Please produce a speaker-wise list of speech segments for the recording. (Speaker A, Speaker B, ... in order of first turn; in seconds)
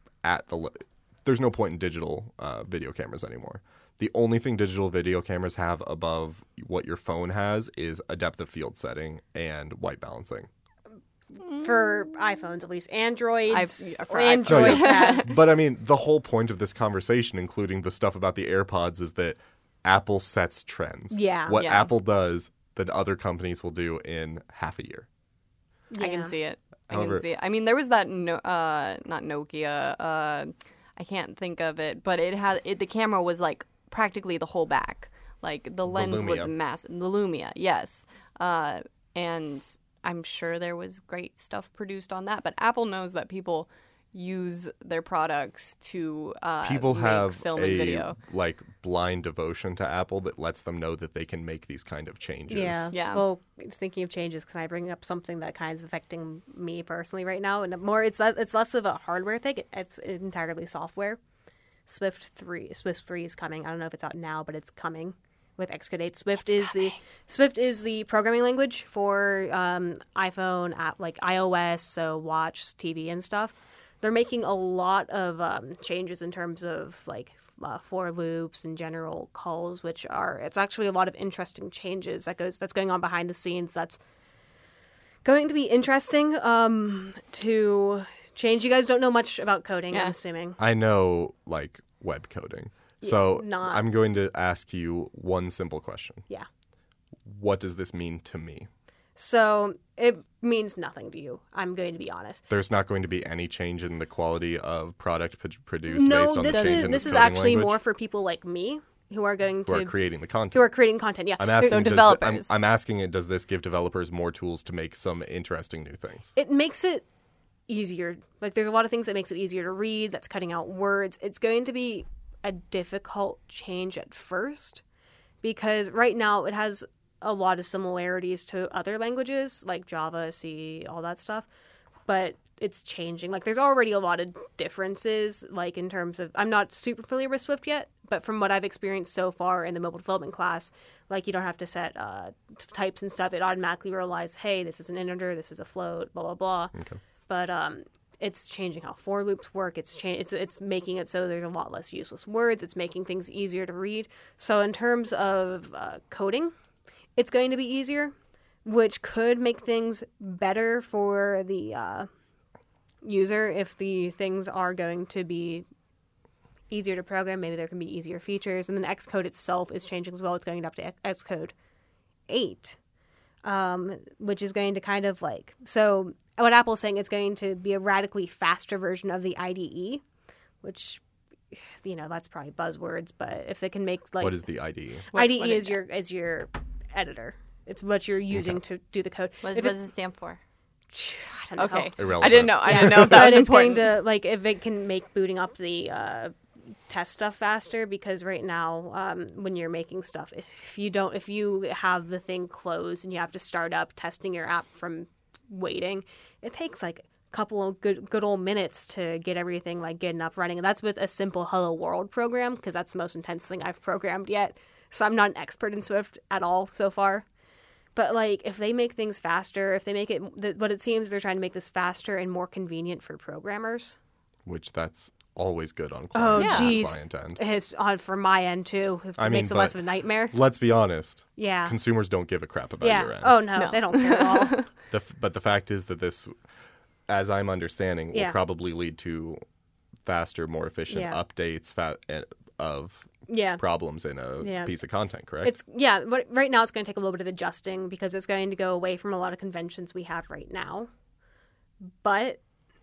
Speaker A: 0.2-10.5, 14.5-25.1, 26.9-27.2, 35.9-36.5, 46.6-52.9, 90.6-96.2, 97.2-98.7, 102.5-107.8, 109.6-110.7, 111.4-116.3, 146.8-147.0, 184.2-185.1, 188.3-188.6, 192.0-193.4, 224.4-227.4, 229.2-229.8, 230.3-233.4, 234.9-236.3, 237.1-239.4, 240.1-245.5
Speaker B: 11.4-12.0, 13.5-15.3, 21.5-21.9, 26.0-48.1, 52.9-53.2, 66.4-66.9, 106.4-107.2, 111.6-112.6, 185.1-185.8, 189.4-190.4, 191.6-194.0, 226.4-226.9, 233.6-234.6
Speaker C: 11.5-15.3, 21.1-21.6, 25.9-26.3, 52.5-61.2, 61.9-84.0, 85.2-90.6, 93.0-93.8, 99.2-102.4, 105.9-109.9, 110.5-111.8, 116.4-117.0, 117.7-124.8, 125.4-131.5, 132.1-146.7, 147.3-156.5, 157.2-158.1, 158.6-162.1, 163.0-165.7, 166.7-171.5, 172.3-172.8, 173.4-180.0, 180.6-184.4, 185.1-189.8, 190.9-196.3, 196.9-217.2, 217.9-224.0, 226.1-230.4, 231.4-231.8, 232.8-234.7, 240.9-241.2, 243.3-243.6, 244.4-244.7, 245.4-250.9, 252.0-252.4